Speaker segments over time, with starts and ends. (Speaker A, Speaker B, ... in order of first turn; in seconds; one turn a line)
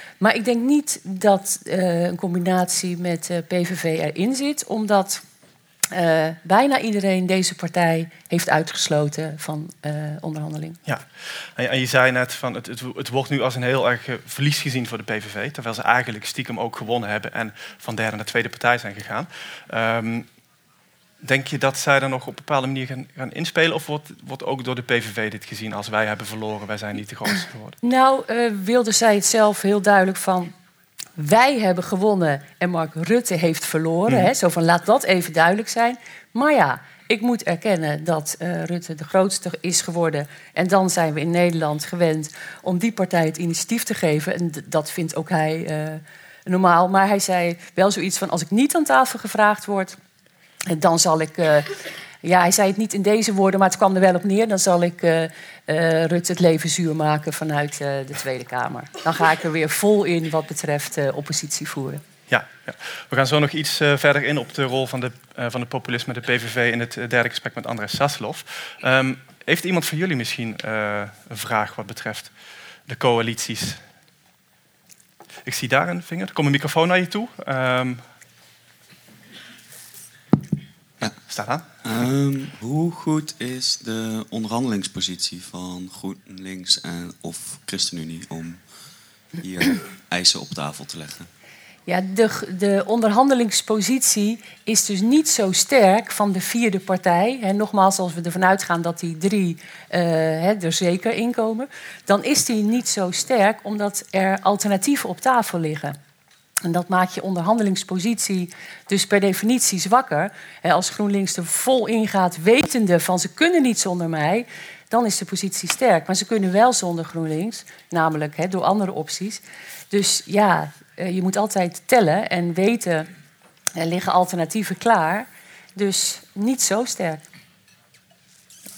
Speaker A: 0.2-5.2
Speaker A: 5.9-10.8
Speaker B: 10.8-20.3
Speaker B: 21.2-27.8
Speaker A: 27.8-30.5
Speaker A: 31.2-50.0
Speaker A: 50.7-51.7
Speaker A: 52.2-62.0
Speaker B: 62.3-72.3
Speaker B: 72.9-73.8
Speaker B: 75.5-78.0
Speaker B: 81.2-81.7
Speaker C: 81.8-88.7
Speaker C: 89.4-91.3
Speaker A: 91.9-106.0
Speaker A: 106.6-123.1
Speaker A: 123.8-127.2